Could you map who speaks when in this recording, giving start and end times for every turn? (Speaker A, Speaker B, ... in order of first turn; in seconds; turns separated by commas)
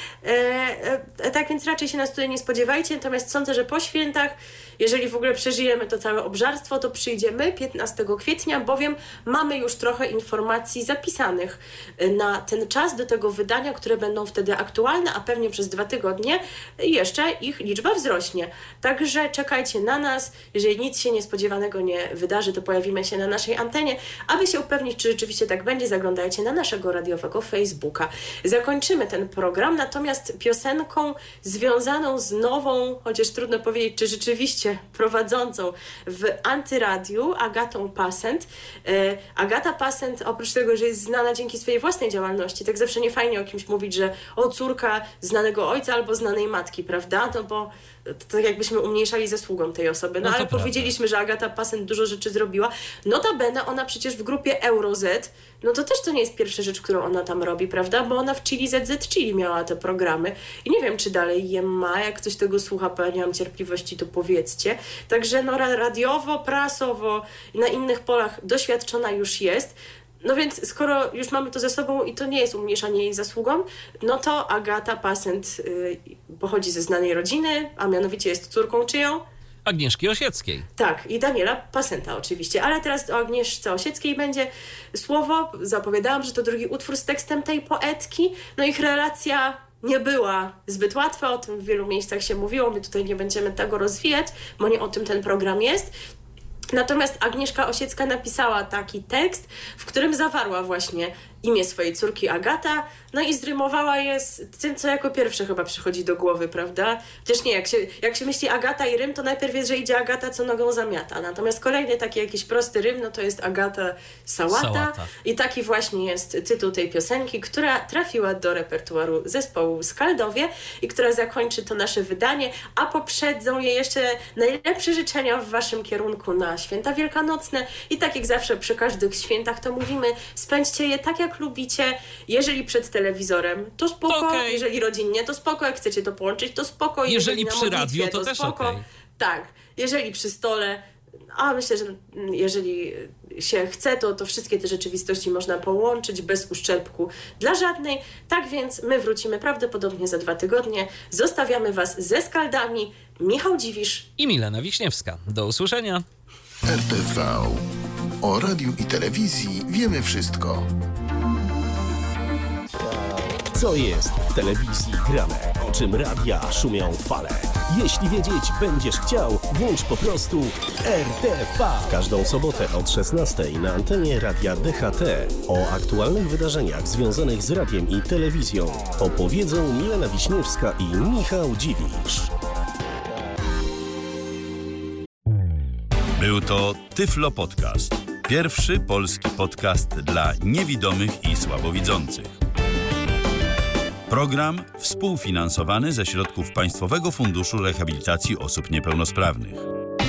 Speaker A: 0.2-79.2, Speaker B: 50.2-50.9, Speaker B: 79.7-80.7, Speaker A: 80.8-95.9, Speaker A: 96.7-140.8, Speaker B: 114.5-115.1, Speaker B: 134.1-134.6, Speaker B: 137.1-138.8, Speaker A: 141.3-154.1, Speaker B: 154.2-156.0, Speaker C: 156.6-157.6, Speaker C: 158.2-160.7, Speaker D: 163.4-182.3, Speaker E: 186.2-192.4, Speaker E: 194.1-199.7